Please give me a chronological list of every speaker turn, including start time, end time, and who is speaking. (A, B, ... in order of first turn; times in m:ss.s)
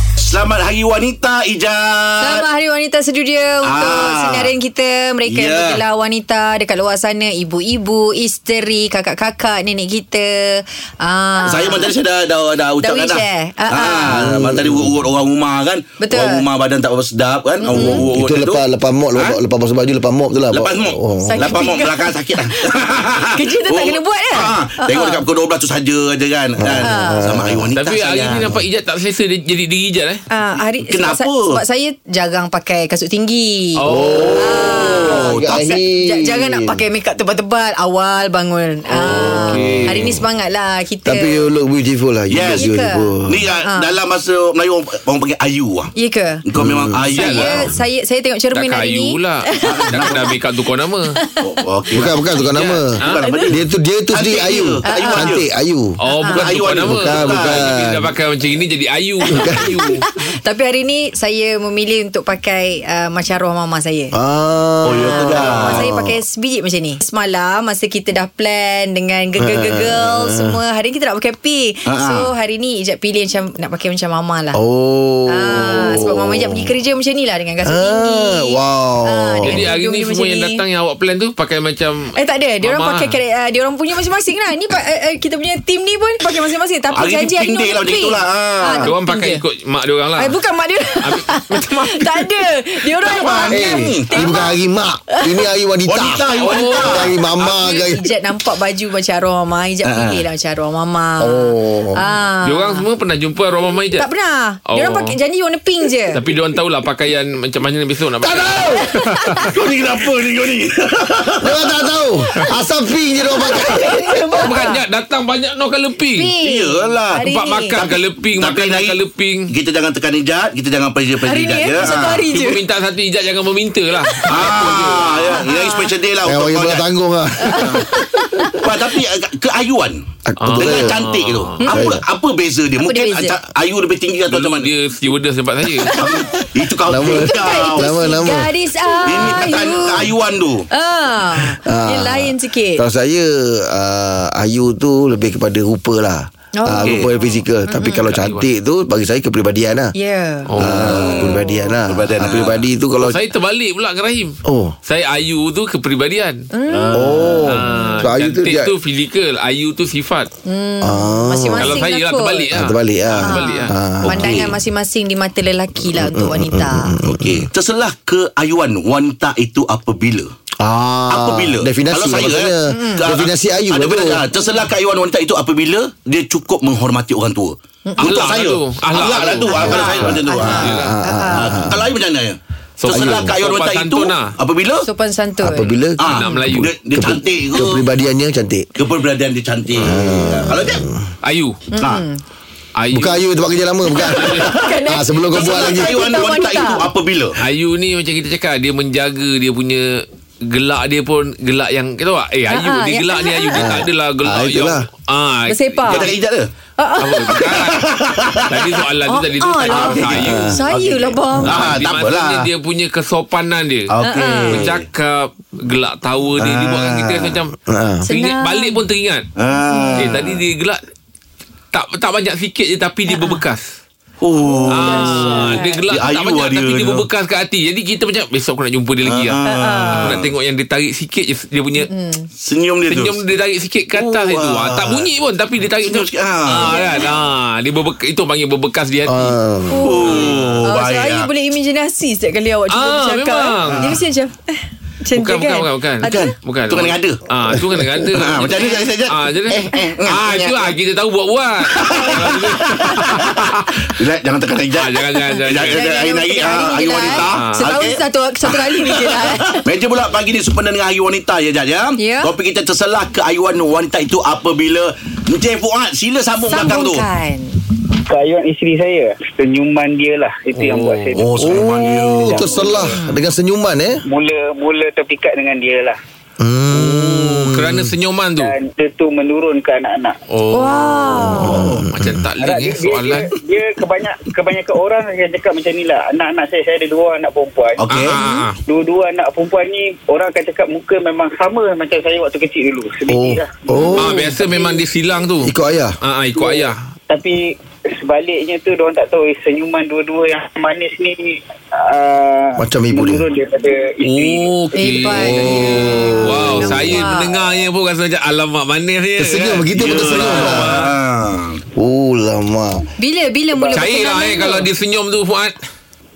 0:00.2-0:02.4 A
0:02.2-0:11.9 B
0:03.6-0:04.5 A
0:05.2-0:05.8 A
0:11.4-0:18.6 A
0:12.8-0:14.2 B
0:14.1-0:14.9 C
0:16.0-0:16.4 B
0:17.7-0:21.6 C
0:17.7-0:18.0 B
0:20.5-0:28.5 A
0:21.2-0:25.2 B
0:26.6-0:27.7 C
0:26.8-0:27.2 B
0:27.7-0:30.2 D
0:30.3-0:33.8 B
0:30.8-0:31.6 A
0:33.8-0:34.4 D
0:33.9-0:36.8 C
0:34.4-0:35.3 B
0:34.4-0:35.8 A
0:36.0-0:41.4 B
0:39.0-0:40.2 C
0:39.0-0:40.0 D
0:41.0-0:43.4 C
0:42.3-0:42.6 A
0:42.5-0:43.1 B
0:43.3-0:45.9 A
0:43.6-0:43.9 B
0:46.0-0:46.4 B
0:46.4-0:47.6 A
0:46.6-0:47.1 C
0:47.1-0:50.2 B
0:47.1-0:47.5 D
0:48.5-0:51.1 D
0:49.6-0:50.3 A
0:51.4-0:52.1 A
0:51.9-0:52.9 C
0:52.5-0:53.2 D
0:52.9-0:55.4 A
0:53.1-0:53.5 B
0:53.5-0:56.0 C
0:54.8-0:55.3 B
0:56.0-1:00.0 D
0:56.1-0:56.5 B
0:56.2-0:57.7 A
0:56.8-0:58.1 C
0:59.3-0:59.7 C
1:00.1-1:04.1 B
1:04.1-1:06.2 C
1:04.8-1:05.8 A
1:05.0-1:14.6 B
1:09.4-1:10.6 C
1:11.8-1:12.3 A
1:14.5-1:16.6 C
1:15.3-1:20.6 B
1:17.6-1:19.6 C
1:19.4-1:23.2 D
1:22.2-1:29.4 B
1:26.9-1:28.9 A
1:28.8-1:30.4 D
1:30.2-1:34.5 B
1:31.0-1:32.1 D
1:33.0-1:34.2 A
1:33.5-1:38.0 C
1:35.9-1:37.1 A
1:36.4-1:37.0 D
1:37.4-1:42.8 B
1:39.8-1:40.2 A
1:41.2-1:42.0 C
1:42.4-1:44.0 D
1:44.0-1:46.2 B
1:44.7-1:45.2 D
1:46.1-1:49.5 D
1:48.3-1:48.8 C
1:48.8-1:49.5 B
1:49.4-1:51.7 A
1:51.4-1:54.1 C
1:53.4-1:54.8 B
1:54.4-1:56.3 D
1:56.1-1:57.8 B
1:56.4-1:59.0 A
1:57.2-1:59.5 D
1:59.5-2:02.3 A
2:01.2-2:02.6 B
2:02.3-2:05.4 D
2:04.3-2:06.8 A
2:05.3-2:05.9 B
2:06.2-2:07.8 C
2:07.4-2:08.6 B
2:08.6-2:10.0 A
2:10.3-2:11.0 C
2:10.4-2:11.6 D
2:10.5-2:14.7 A
2:11.7-2:12.0 C
2:12.8-2:13.4 B
2:14.3-2:15.9 D
2:15.8-2:16.5 B
2:15.9-2:17.9 A
2:16.9-2:18.5 C
2:17.0-2:20.1 B
2:19.0-2:20.7 A
2:20.7-2:22.8 B
2:21.6-2:29.9 C
2:26.5-2:28.0 B
2:26.8-2:27.1 A
2:27.8-2:28.4 D
2:29.9-2:31.7 B
2:30.5-2:30.8 D
2:30.6-2:32.6 A
2:30.6-2:33.2 C
2:33.0-2:36.9 D
2:34.4-2:34.8 C
2:36.5-2:37.0 B
2:36.9-2:38.7 C
2:37.4-2:40.3 D
2:37.6-2:38.0 B
2:40.4-2:42.5 B
2:40.8-2:41.8 C
2:41.6-2:43.7 D
2:42.5-2:44.5 C
2:43.2-2:46.9 B
2:45.9-2:47.5 C
2:47.0-2:50.3 A
2:50.6-2:54.2 C
2:51.1-3:00.8 A
2:52.7-2:53.0 B
2:58.0-2:59.9 D
2:59.5-3:01.5 B
2:59.7-3:01.9 C
3:00.5-3:00.9 D
3:01.3-3:04.8 A
3:02.8-3:04.3 D
3:02.9-3:03.3 C
3:04.8-3:06.3 B
3:05.4-3:08.7 C
3:06.0-3:07.8 A
3:06.1-3:06.7 D
3:08.8-3:10.8 A
3:09.8-3:11.0 C
3:11.2-3:11.6 D
3:11.7-3:12.2 B
3:11.8-3:12.0 A
3:12.8-3:13.2 D
3:12.9-3:16.2 C
3:14.1-3:14.5 D
3:14.4-3:14.7 A
3:14.5-3:16.9 B
3:15.3-3:17.4 A
3:17.4-3:26.0 D
3:22.5-3:23.6 B
3:23.5-3:24.8 C
3:25.5-3:26.1 B
3:25.9-3:26.5 A
3:26.8-3:27.3 B
3:27.0-3:27.8 D
3:27.3-3:28.8 A
3:28.5-3:30.8 D
3:29.1-3:31.6 B
3:29.6-3:30.5 A
3:30.2-3:30.5 C
3:31.4-3:32.5 A
3:31.5-3:33.9 D
3:33.9-3:34.8 A
3:34.0-3:34.7 B
3:34.5-3:37.5 D
3:36.4-3:37.2 A
3:37.6-3:38.0 C
3:38.0-3:38.8 B
3:38.1-3:39.2 D
3:39.4-3:40.4 A
3:39.6-3:40.1 B
3:40.0-3:40.8 D
3:41.7-3:43.7 D
3:43.1-3:43.4 B
3:44.2-3:47.0 A
3:44.4-3:45.8 B
3:44.7-3:49.4 D
3:49.0-3:50.3 A
3:49.4-3:50.2 B
3:50.0-3:51.9 D
3:51.8-3:52.3 B
3:52.4-3:53.2 A
3:52.9-3:59.3 D
3:53.9-3:55.1 A
3:55.8-3:56.9 A
3:56.5-3:57.1 B
3:59.1-3:59.8 C
3:59.7-4:06.3 B
3:59.8-4:01.3 A
4:02.7-4:04.0 D
4:05.1-4:13.7 D
4:06.0-4:07.2 A
4:08.1-4:10.7 A
4:11.7-4:13.4 A
4:11.9-4:12.1 B
4:13.9-4:27.0 A
4:14.8-4:15.8 D
4:15.6-4:19.6 B
4:17.3-4:17.6 D
4:22.0-4:22.3 B
4:26.5-4:27.6 B
4:28.0-4:31.7 E
4:30.5-4:31.1 D
4:31.1-4:32.8 A
4:31.4-4:34.0 C
4:32.2-4:33.0 E
4:33.0-4:33.2 B
4:34.1-4:36.0 E
4:36.4-4:37.9 C
4:36.7-4:38.5 D
4:38.4-4:40.2 E
4:40.3-4:43.3 D
4:40.5-4:41.5 B
4:41.2-4:42.3 C
4:41.5-4:41.8 A
4:42.4-4:47.9 E
4:47.8-4:48.2 A
4:47.9-4:48.6 D
4:48.1-4:48.4 B
4:48.6-4:54.8 E
4:53.1-4:54.3 C
4:54.0-4:56.8 D
4:55.4-4:56.0 C
4:56.4-5:05.2 E
5:02.6-5:03.2 C
5:04.0-5:10.9 D
5:04.7-5:07.3 B
5:05.4-5:07.0 C
5:09.2-5:10.8 C
5:09.8-5:11.6 A
5:11.8-5:12.8 C
5:13.0-5:14.7 B
5:13.7-5:15.5 D